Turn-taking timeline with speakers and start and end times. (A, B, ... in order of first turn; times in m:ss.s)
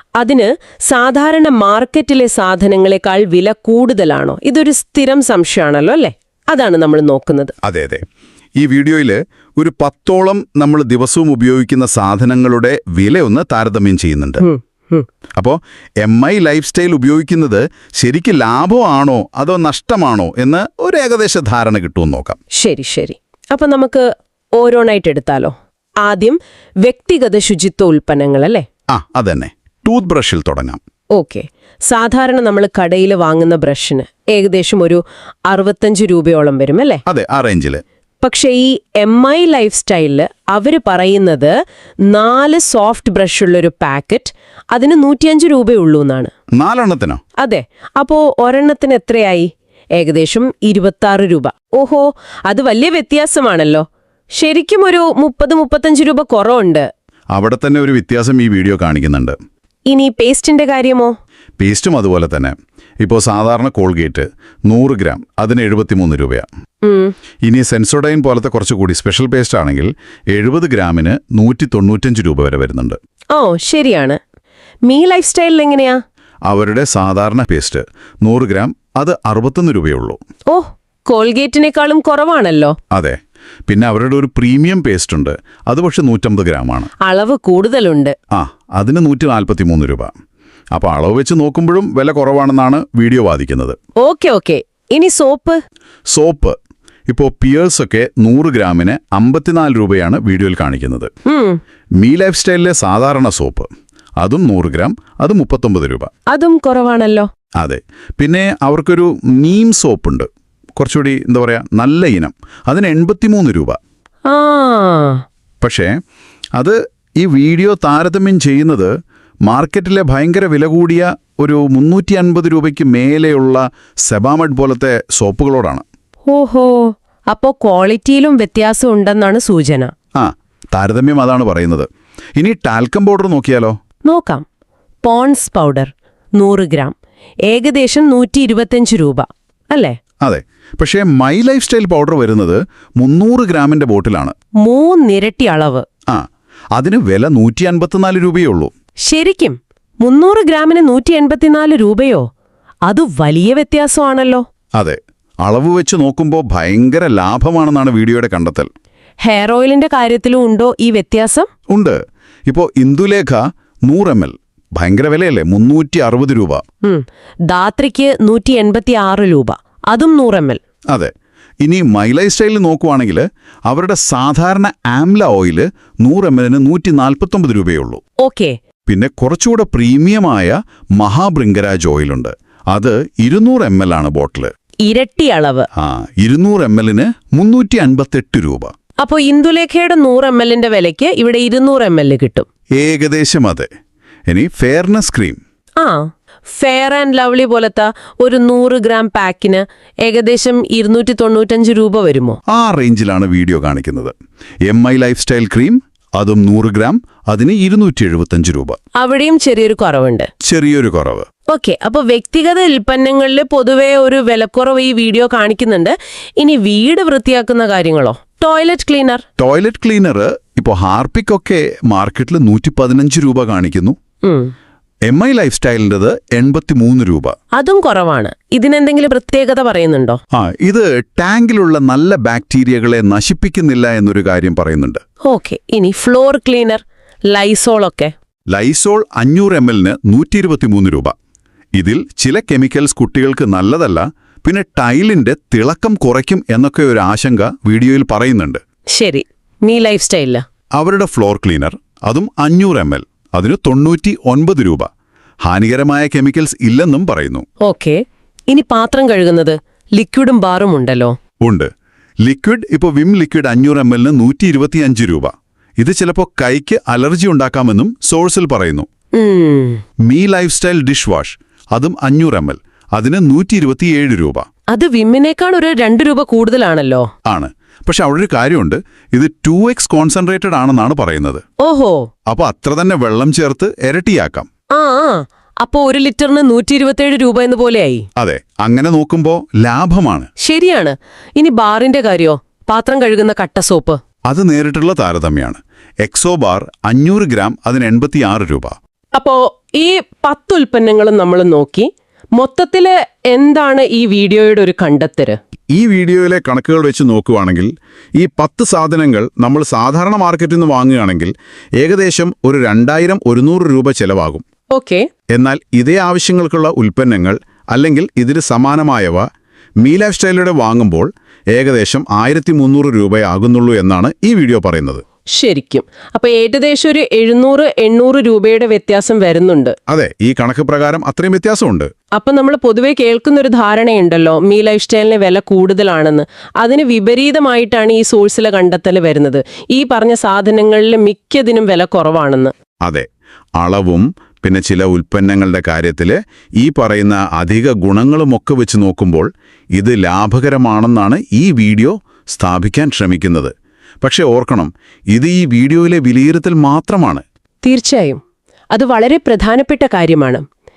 0:00.2-0:07.5 A
0:07.6-0:08.0 B
0:08.6-0:14.4 B
0:14.4-0:15.1 A
0:15.4-0:22.4 B
0:22.5-0:24.0 A
0:24.6-0:28.6 A
0:28.9-0:30.8 B
0:31.1-0:37.0 A
0:37.0-0:37.8 B
0:38.2-0:41.5 A
0:42.1-0:46.3 A
0:46.6-0:47.2 B
0:47.4-0:56.9 A
0:57.3-0:59.4 B
0:59.9-1:01.1 A
1:01.6-1:06.5 B
1:06.8-1:07.1 A
1:07.4-1:13.0 B
1:13.3-1:14.2 A
1:14.9-1:16.0 A
1:16.5-1:20.2 B
1:20.5-1:22.8 A
1:22.9-1:26.9 B
1:27.0-1:28.1 A
1:28.3-1:30.1 B
1:30.7-1:33.8 B
1:34.0-1:35.6 A
1:36.1-1:36.6 B
1:37.1-1:41.1 B
1:41.3-1:41.6 A
1:42.0-1:43.7 B
1:44.2-1:46.1 B
1:46.3-1:47.3 A
1:47.6-1:53.8 B
1:54.3-1:55.2 A
1:55.6-1:55.9 B
1:56.6-1:58.9 B
1:59.4-2:05.8 B
2:06.3-2:09.9 A
2:10.1-2:13.8 B
2:14.0-2:14.4 A
2:15.0-2:16.9 A
2:17.5-2:20.0 A
2:20.2-2:24.3 B
2:24.6-2:25.8 A
2:26.1-2:28.7 B
2:29.0-2:32.2 A
2:32.9-2:34.4 A
2:34.7-2:38.7 B
2:39.2-2:41.5 A
2:41.7-2:46.6 B
2:46.8-2:50.6 A
2:50.9-2:58.0 B
2:58.2-2:58.5 A
2:58.8-3:04.5 B
3:04.8-3:05.7 A
3:05.8-3:08.7 B
3:09.0-3:12.4 A
3:12.8-3:13.7 B
3:14.3-3:15.4 B
3:15.8-3:22.4 A
3:22.5-3:24.1 B
3:24.6-3:28.8 B
3:29.0-3:30.3 A
3:30.4-3:31.3 B
3:31.5-3:39.2 A
3:39.4-3:44.0 B
3:44.2-3:44.5 A
3:45.1-3:47.3 B
3:47.5-3:50.2 A
3:50.3-3:55.0 B
3:55.2-3:58.1 A
3:58.5-4:01.1 B
4:01.8-4:08.6 B
4:08.9-4:10.4 A
4:10.8-4:14.9 B
4:15.4-4:17.4 B
4:17.6-4:21.2 A
4:21.4-4:21.7 B
4:22.2-4:28.9 B
4:29.2-4:29.8 A
4:30.0-4:34.4 B
4:34.7-4:37.1 A
4:37.2-4:41.4 B
4:41.6-4:42.1 A
4:42.3-4:44.5 B
4:44.7-4:48.1 A
4:48.2-4:50.3 B
4:50.4-4:54.0 A
4:54.3-4:58.7 B
4:59.1-5:05.4 A
5:05.7-5:14.4 B
5:14.7-5:15.1 A
5:15.3-5:19.2 B
5:19.8-5:25.0 B
5:25.3-5:29.8 A
5:29.9-5:31.9 B
5:32.2-5:42.5 A
5:42.8-5:57.2 B
5:57.6-5:58.2 A
5:58.7-6:00.4 A